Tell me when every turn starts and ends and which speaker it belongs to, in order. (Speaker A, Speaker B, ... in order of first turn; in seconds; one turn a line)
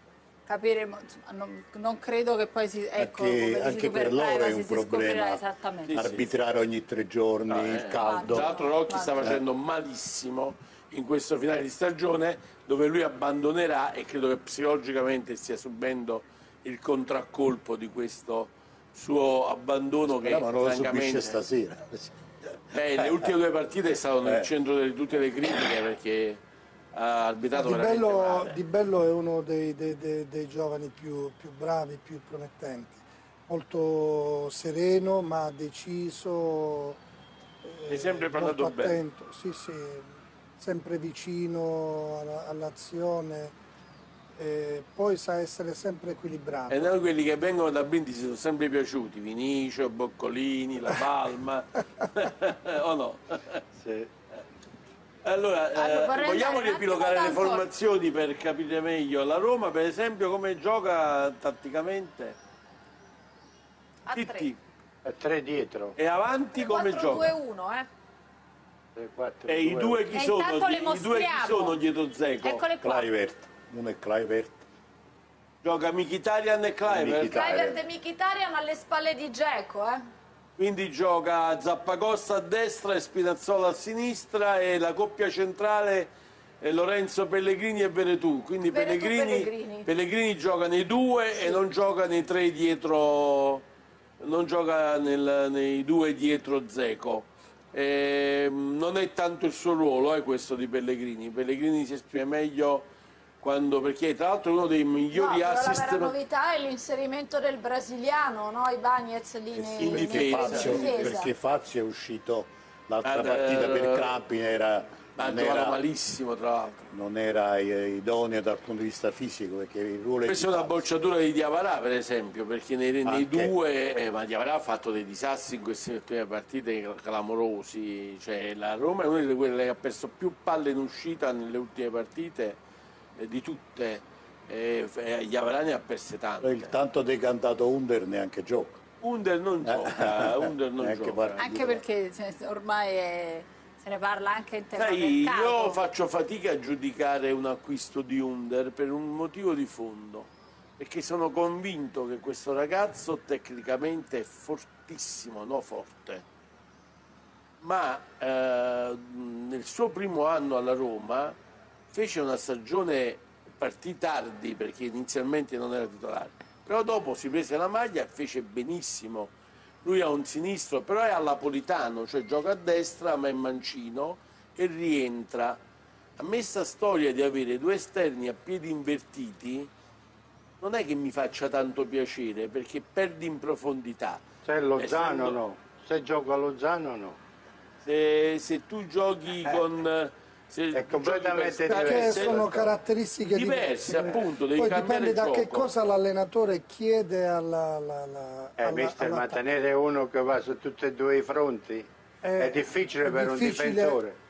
Speaker A: 0.5-5.9
Speaker B: 3.0-8.5
Speaker C: 5.9-6.2
Speaker C: 7.5-21.4
Speaker A: 8.0-9.4
Speaker B: 20.1-23.3
Speaker C: 22.7-26.4
Speaker B: 24.2-24.5
Speaker C: 26.9-28.6
Speaker D: 27.5-37.0
Speaker D: 37.6-43.5
Speaker C: 37.9-39.0
Speaker D: 44.4-47.0
Speaker C: 46.7-53.6
Speaker E: 53.8-54.1
Speaker C: 55.2-62.4
Speaker A: 55.8-57.7
Speaker F: 64.1-64.5
Speaker C: 64.1-64.6
Speaker E: 65.0-66.0
Speaker C: 66.0-67.3
Speaker F: 66.6-67.9
Speaker E: 69.0-70.0
Speaker C: 69.5-72.6
Speaker A: 70.0-71.8
Speaker A: 72.4-73.1
Speaker B: 72.8-74.6
Speaker C: 75.6-77.6
Speaker B: 76.8-77.8
Speaker F: 77.2-80.0
Speaker C: 80.6-93.7
Speaker F: 88.7-89.9
Speaker C: 94.2-102.9
Speaker C: 103.4-106.1
Speaker F: 105.1-111.3
Speaker B: 109.6-115.8
Speaker C: 109.8-111.1
Speaker C: 113.0-114.2
Speaker C: 115.2-116.9
Speaker B: 116.9-120.9
Speaker C: 120.3-132.6
Speaker B: 123.0-123.5
Speaker C: 133.2-136.7
Speaker B: 136.4-138.8
Speaker C: 139.0-141.6
Speaker B: 139.6-141.8
Speaker A: 141.4-145.8
Speaker C: 144.8-156.2
Speaker C: 157.6-161.4
Speaker C: 161.9-175.6
Speaker C: 176.2-179.7
Speaker C: 180.6-184.2
Speaker E: 184.4-187.2
Speaker C: 184.8-185.4
Speaker C: 187.8-192.7
Speaker E: 190.7-192.6
Speaker D: 191.7-199.4
Speaker C: 193.3-195.7
Speaker E: 198.6-204.2
Speaker D: 202.2-204.0